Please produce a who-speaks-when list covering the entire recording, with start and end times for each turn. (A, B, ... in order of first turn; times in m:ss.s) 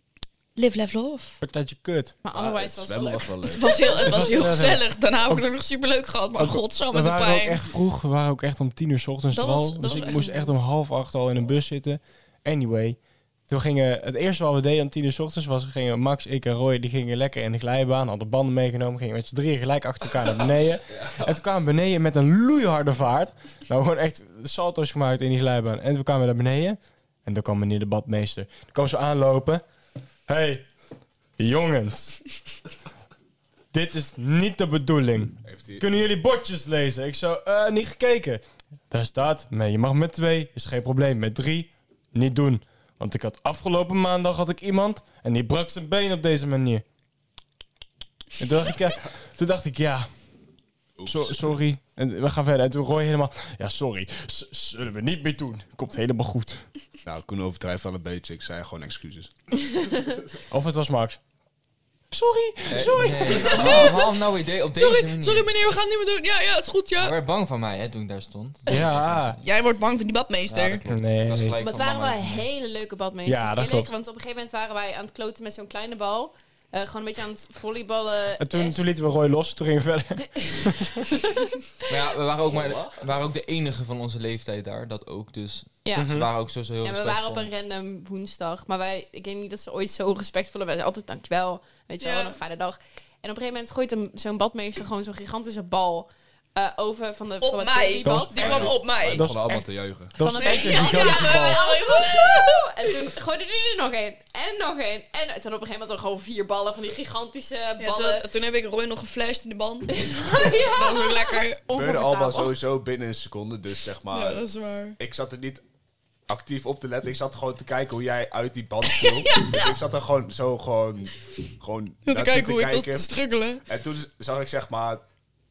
0:00.6-0:01.4 A
0:01.4-0:02.1 B
0:02.2-0:03.9 C
0:02.3-0:04.5 D
0:03.5-0:07.7 A
0:04.0-0:05.4 B
0:06.4-0:29.6 B
0:09.3-0:10.5 A
0:20.9-0:21.2 D
0:30.3-0:30.7 B
0:31.4-0:32.2 B
0:33.7-0:46.8 B
0:35.4-0:35.9 D
0:48.4-0:50.1 B
0:51.0-0:51.6 D
0:51.1-0:56.7 B
0:57.0-0:59.3 D
1:00.5-1:01.2 B
1:02.1-1:03.9 B
1:02.7-1:05.5 E
1:03.5-1:03.9 A
1:04.8-1:07.2 A
1:07.0-1:09.4 E
1:08.7-1:09.4 B
1:09.4-1:10.8 A
1:10.5-1:12.4 E
1:10.9-1:11.6 B
1:11.6-1:18.8 C
1:13.3-1:13.9 B
1:18.4-1:21.0 B
1:21.1-1:21.5 C
1:21.9-1:27.5 E
1:25.8-1:26.2 C
1:26.0-1:26.3 B
1:26.8-1:38.8 C
1:32.0-1:32.4 A
1:37.4-1:39.3 A
1:38.0-1:41.6 B
1:38.5-1:40.2 D
1:40.2-1:48.3 C
1:40.2-1:42.7 A
1:47.8-1:51.6 A
1:49.9-1:52.6 C
1:51.7-1:54.5 D
1:54.1-1:55.0 A
1:55.0-1:55.6 D
1:56.3-2:05.0 D
1:58.9-1:59.8 A
2:02.0-2:03.6 A